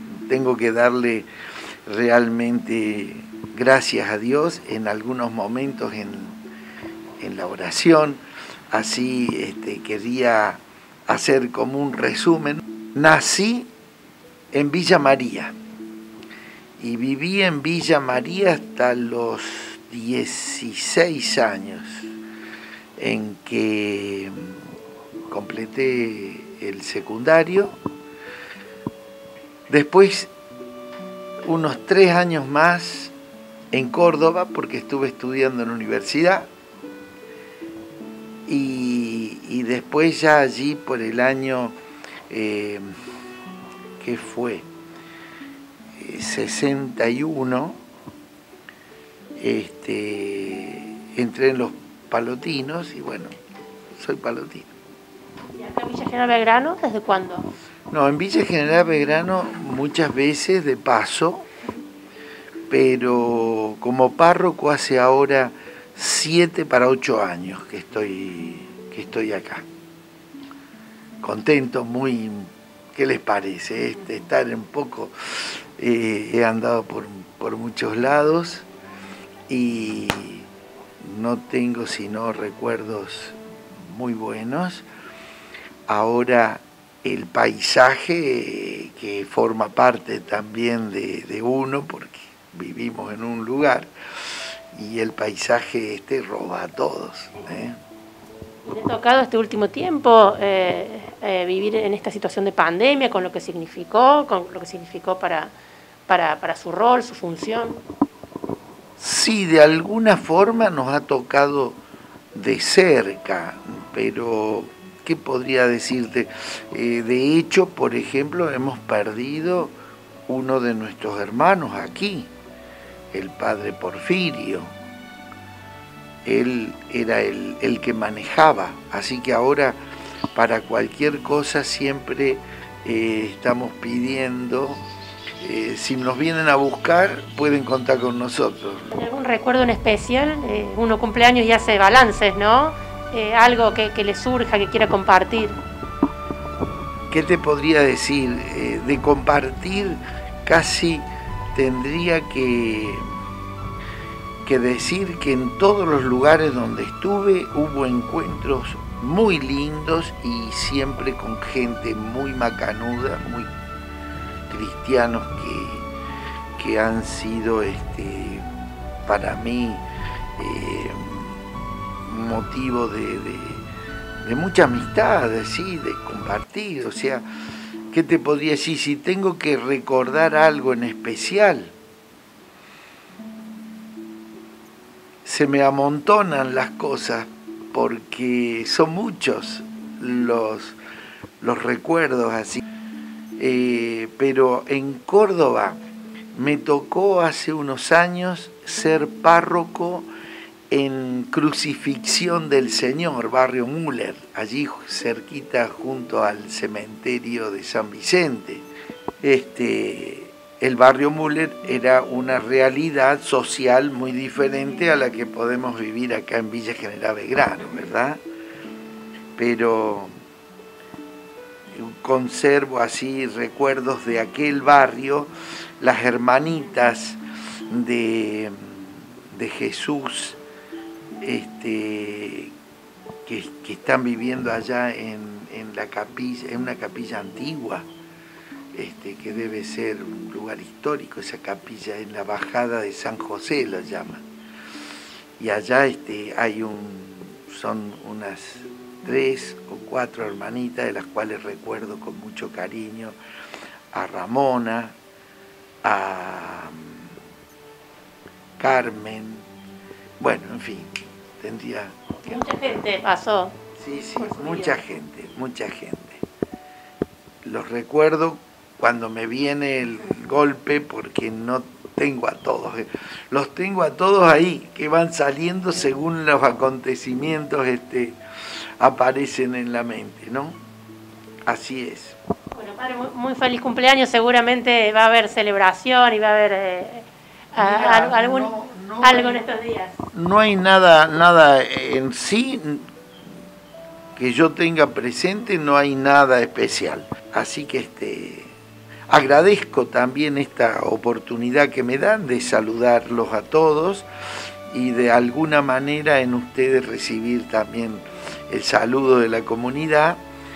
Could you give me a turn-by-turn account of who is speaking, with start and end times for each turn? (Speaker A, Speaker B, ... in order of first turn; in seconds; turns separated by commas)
Speaker A: 0.3-1.3, Speaker A: 1.9-6.4, Speaker A: 7.2-13.7, Speaker A: 14.5-15.6, Speaker A: 16.8-22.1, Speaker A: 23.0-24.5, Speaker A: 25.3-27.7, Speaker A: 29.7-30.3, Speaker A: 31.4-33.1, Speaker A: 33.7-36.5, Speaker A: 38.5-41.8, Speaker A: 42.3-42.9, Speaker A: 44.0-44.7, Speaker A: 46.0-47.8, Speaker A: 49.4-53.3, Speaker A: 53.9-54.7, Speaker B: 55.5-57.5, Speaker A: 57.9-61.5, Speaker A: 62.7-69.7, Speaker A: 71.2-78.7, Speaker A: 79.5-80.5, Speaker A: 81.0-84.9, Speaker A: 85.9-97.8, Speaker B: 98.7-105.5, Speaker B: 106.1-107.8, Speaker A: 109.0-111.8, Speaker A: 112.3-119.7, Speaker A: 120.3-122.3, Speaker A: 123.1-124.7, Speaker A: 126.2-129.8, Speaker A: 130.3-134.8, Speaker A: 135.4-138.9, Speaker B: 138.9-145.6, Speaker A: 147.1-153.1, Speaker A: 154.4-163.5, Speaker A: 164.5-165.9, Speaker A: 166.6-168.5, Speaker A: 169.1-169.8, Speaker A: 170.4-171.4, Speaker A: 172.1-173.7, Speaker A: 174.2-177.2, Speaker A: 177.9-181.7, Speaker A: 185.2-190.8, Speaker A: 191.4-192.6, Speaker A: 193.4-195.8, Speaker A: 196.3-200.1, Speaker A: 200.7-208.7, Speaker A: 209.2-218.2, Speaker A: 219.4-220.1, Speaker A: 221.7-230.4, Speaker A: 231.2-232.5, Speaker A: 233.3-237.9, Speaker A: 238.7-244.2, Speaker A: 245.4-253.2, Speaker A: 253.9-254.9, Speaker A: 255.8-257.1, Speaker A: 258.6-259.5, Speaker A: 260.2-262.8, Speaker B: 262.2-263.6, Speaker A: 263.8-266.2, Speaker B: 264.2-264.8, Speaker A: 267.4-278.2, Speaker A: 278.8-280.6, Speaker A: 281.5-282.2, Speaker B: 282.5-288.5, Speaker A: 287.6-289.4, Speaker B: 289.0-290.0, Speaker A: 290.1-292.9, Speaker A: 294.2-298.6, Speaker A: 299.1-304.1, Speaker A: 304.7-310.2